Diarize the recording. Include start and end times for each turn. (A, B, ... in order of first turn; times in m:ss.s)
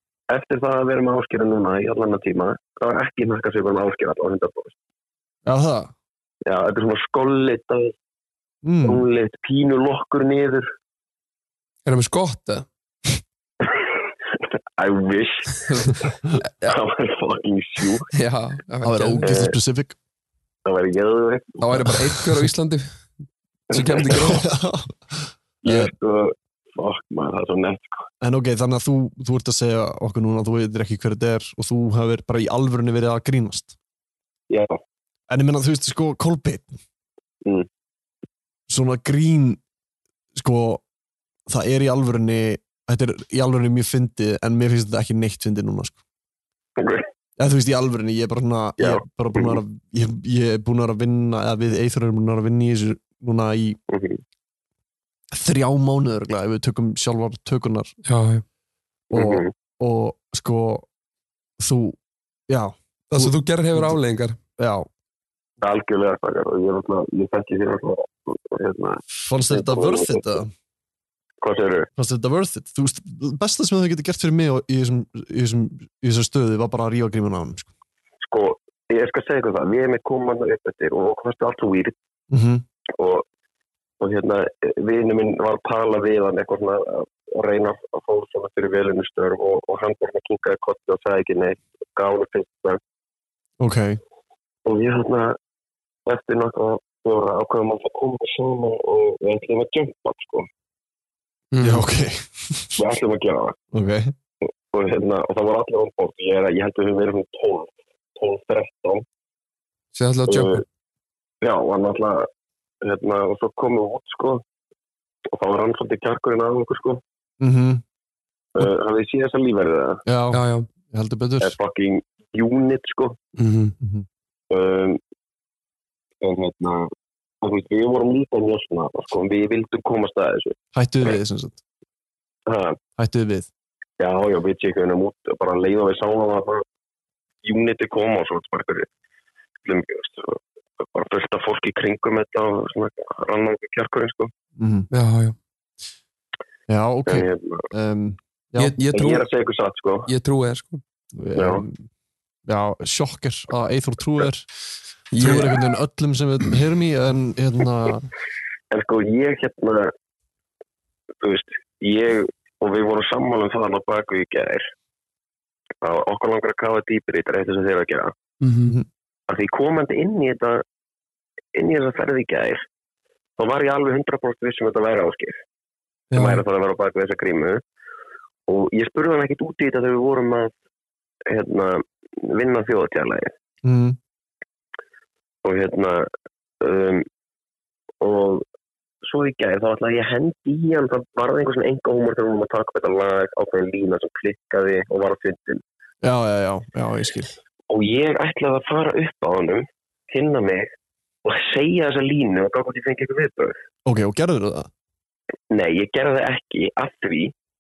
0:00.3-0:04.8 A
0:05.5-0:05.9 B
0:06.5-0:07.9 A
0:08.6-0:09.0 B
0:08.8-0:10.7 A
0:11.9-0:12.7 C
0:13.6-0:13.9 A
0:14.4-0:18.1 A
0:15.7-0:16.0 C
0:18.1-0:19.3 C
0:18.8-0:20.0 B
0:19.2-0:19.6 A
0:20.6-0:21.6 A
0:21.6-0:23.0 C
0:22.2-0:22.5 B
0:23.7-0:24.5 C
0:23.7-0:24.0 A
0:24.1-0:25.9 B
0:25.6-0:28.0 A
0:28.2-0:33.8 B
0:34.5-0:34.8 A
0:35.3-0:36.8 B
0:38.7-0:39.6 B
0:40.4-0:40.8 B
0:41.5-0:46.0 B
0:46.8-0:47.0 A
0:47.4-0:53.8 B
0:48.8-0:49.6 A
0:53.9-0:54.2 A
0:55.3-0:57.9 B
0:58.0-0:58.4 C
0:59.1-0:59.5 A
0:59.1-1:00.9 B
1:01.6-1:02.0 B
1:02.5-1:04.0 B
1:03.1-1:04.4 C
1:04.6-1:04.9 B
1:05.6-1:10.4 A
1:09.2-1:10.5 B
1:11.4-1:11.9 A
1:12.0-1:17.7 B
1:18.2-1:22.0 A
1:22.3-1:22.6 B
1:23.0-1:23.2 A
1:24.0-1:32.8 A
1:33.6-1:34.0 B
1:34.7-1:35.4 A
1:36.1-1:40.5 A
1:41.5-1:41.8 C
1:41.6-1:42.8 B
1:42.8-1:43.6 A
1:43.7-1:44.1 B
1:44.7-1:49.0 A
1:49.9-1:50.6 C
1:50.3-1:50.6 A
1:51.4-1:52.3 A
1:52.8-1:54.4 A
1:55.3-1:57.0 A
1:57.4-1:57.8 B
1:58.6-2:00.0 A
2:00.1-2:01.6 B
2:00.3-2:00.7 C
2:01.4-2:03.2 A
2:03.4-2:03.8 C
2:03.8-2:04.1 B
2:04.5-2:05.0 A
2:06.2-2:06.9 A
2:07.4-2:11.2 A
2:10.8-2:11.6 B
2:12.5-2:12.8 A
2:13.0-2:13.5 B
2:14.0-2:16.6 A
2:17.4-2:18.9 A
2:19.6-2:20.4 A
2:20.9-2:24.3 A
2:24.6-2:24.9 B
2:24.9-2:25.4 C
2:26.7-2:28.7 B
2:27.1-2:27.7 A
2:28.6-2:29.3 C
2:28.9-2:30.1 A
2:30.1-2:30.8 C
2:31.2-2:31.8 B
2:31.4-2:31.6 A
2:32.5-2:34.5 B
2:35.1-2:35.5 C
2:35.2-2:38.1 B
2:38.7-2:39.9 A
2:41.2-2:44.7 A
2:45.8-2:48.1 A
2:48.4-2:48.8 C
2:49.3-2:50.6 A
2:51.5-2:52.6 A
2:53.4-2:55.4 A
2:56.1-2:56.4 B
2:56.1-2:57.6 A
2:58.5-3:00.5 A
3:01.3-3:03.3 A
3:03.6-3:04.0 B
3:05.4-3:06.1 A
3:06.6-3:07.0 A
3:08.0-3:08.4 A
3:09.0-3:15.6 A
3:16.0-3:17.4 B
3:17.7-3:20.7 A
3:21.2-3:23.6 A
3:23.9-3:24.7 B
3:25.5-3:27.3 A